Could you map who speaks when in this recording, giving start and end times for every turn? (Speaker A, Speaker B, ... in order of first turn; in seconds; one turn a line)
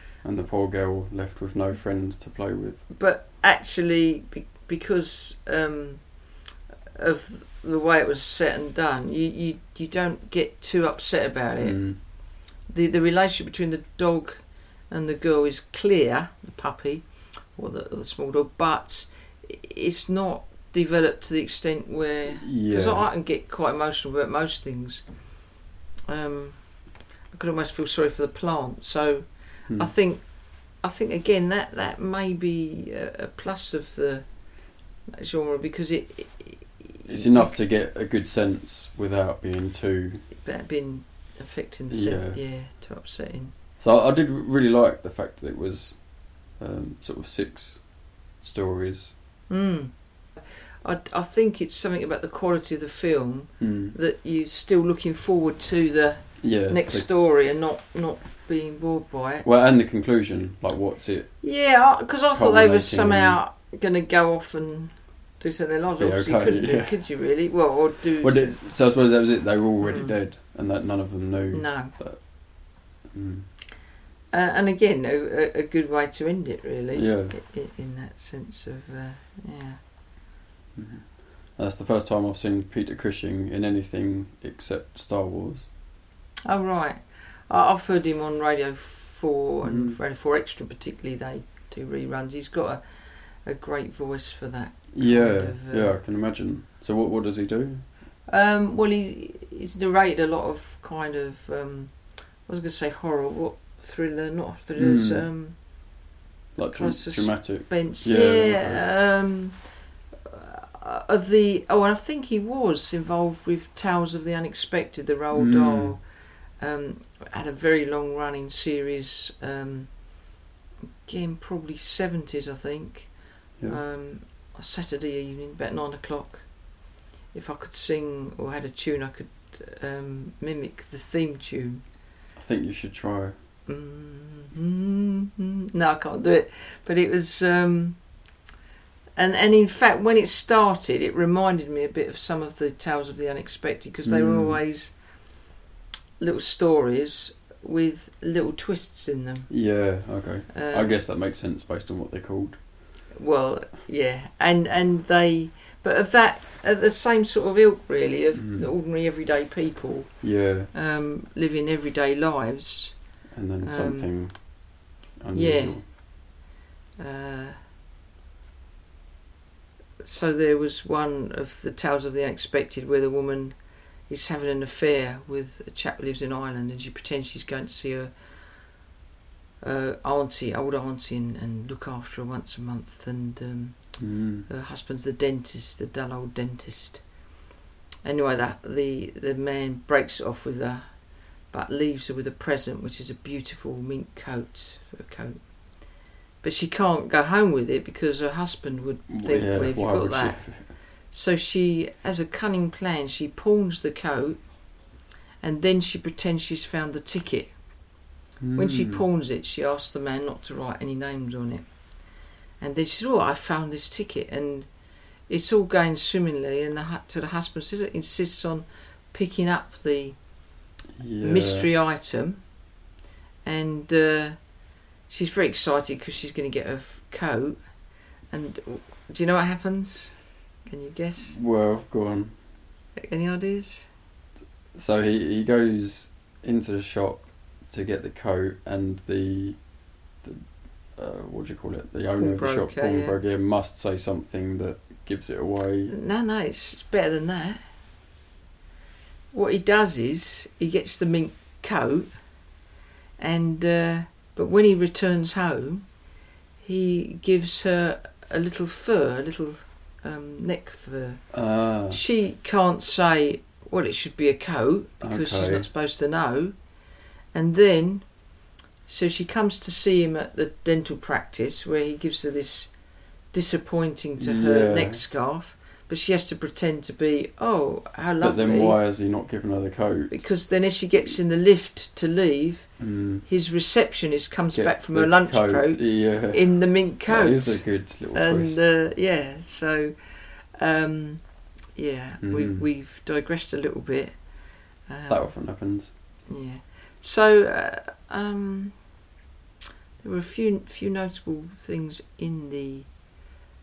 Speaker A: 0.2-2.9
Speaker B: 2.9-25.5
Speaker A: 11.6-12.0
Speaker A: 22.4-23.1
Speaker B: 26.1-37.6
Speaker A: 37.1-40.3
Speaker B: 40.4-43.5
Speaker A: 41.9-42.4
Speaker A: 43.8-49.1
Speaker B: 49.5-59.5
Speaker A: 53.6-54.0
Speaker A: 56.4-57.1
Speaker A: 59.4-61.5
Speaker B: 61.4-68.6
Speaker A: 62.3-63.4
Speaker A: 66.0-67.7
Speaker A: 68.2-73.5
Speaker B: 69.8-70.2
Speaker B: 71.5-71.9
Speaker B: 74.3-79.8
Speaker A: 76.9-77.4
Speaker A: 80.8-85.7
Speaker B: 86.5-96.0
Speaker A: 89.6-90.0
Speaker A: 94.9-97.9
Speaker B: 98.3-120.5
Speaker A: 104.8-105.2
Speaker A: 106.6-108.9
Speaker A: 115.3-116.0
Speaker B: 121.0-131.9
Speaker A: 132.4-133.3
Speaker B: 133.7-138.4
Speaker B: 139.2-145.4
Speaker A: 144.0-144.6
Speaker B: 146.2-151.0
Speaker A: 149.5-152.8
Speaker B: 153.1-164.4
Speaker A: 158.4-158.7
Speaker A: 160.2-160.7
Speaker A: 163.3-165.8
Speaker B: 165.3-166.4
Speaker B: 167.0-167.7
Speaker B: 170.0-178.7
Speaker B: 179.6-187.3
Speaker A: 184.0-184.5
Speaker B: 188.0-208.0
Speaker A: 199.1-200.8
Speaker A: 208.4-209.0
Speaker B: 208.6-220.5
Speaker A: 221.0-221.7
Speaker B: 221.2-222.7
Speaker B: 223.4-231.4
Speaker A: 231.3-232.4
Speaker B: 233.0-233.9
Speaker A: 234.7-245.9
Speaker B: 242.2-243.2
Speaker B: 245.9-247.7
Speaker B: 249.3-252.6
Speaker B: 253.2-278.8
Speaker A: 261.3-262.0
Speaker A: 265.0-265.7
Speaker A: 274.2-275.0
Speaker A: 278.2-280.1
Speaker B: 280.1-299.1
Speaker A: 282.8-283.3
Speaker A: 284.6-288.7
Speaker A: 292.2-292.7
Speaker A: 295.1-295.9
Speaker B: 300.0-303.3